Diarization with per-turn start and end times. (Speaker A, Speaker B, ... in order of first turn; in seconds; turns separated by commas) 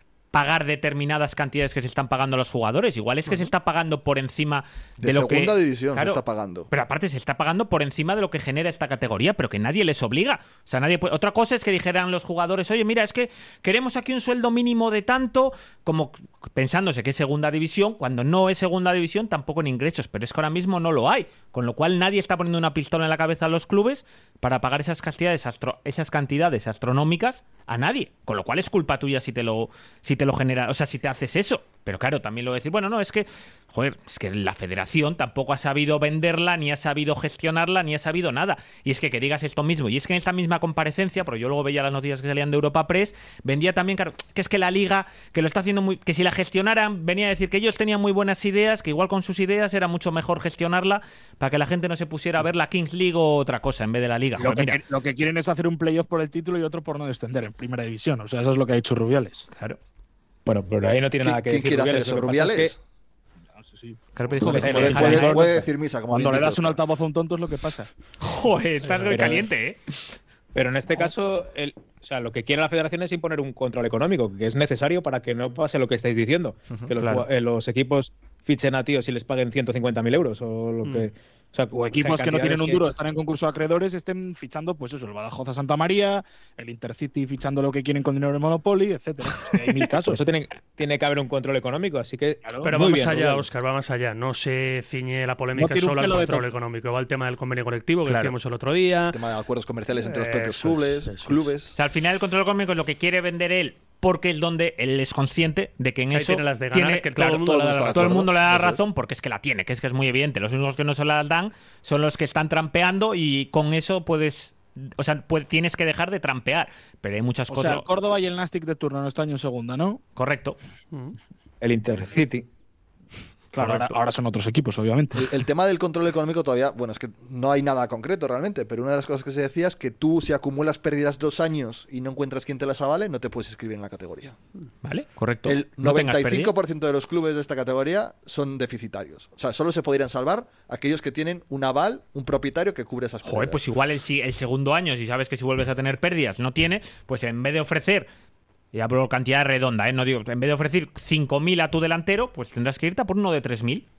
Speaker A: 0.3-54.8, Speaker B: 5.0-6.7, Speaker C: 54.4-59.5, Speaker D: 60.5-62.8, Speaker B: 61.2-62.8, Speaker C: 63.5-64.0, Speaker A: 64.2-65.5, Speaker D: 64.4-65.6, Speaker B: 64.5-66.8, Speaker C: 66.1-67.9, Speaker A: 68.2-69.8, Speaker D: 69.0-69.5, Speaker D: 70.5-82.8, Speaker A: 77.0-77.3, Speaker C: 81.7-90.2, Speaker D: 90.0-93.5, Speaker C: 92.5-92.7, Speaker E: 92.7-99.2, Speaker C: 95.6-96.5, Speaker A: 98.1-98.3, Speaker B: 99.1-101.8, Speaker E: 100.0-101.5, Speaker A: 101.8-117.8, Speaker E: 106.1-108.2, Speaker B: 107.2-108.8, Speaker C: 117.5-120.0, Speaker A: 120.2-120.6, Speaker D: 121.6-122.5, Speaker C: 123.5-125.2, Speaker A: 123.6-123.9, Speaker B: 125.2-134.4, Speaker A: 134.8-136.5, Speaker B: 135.5-143.6, Speaker A: 143.2-148.1, Speaker A: 148.7-153.8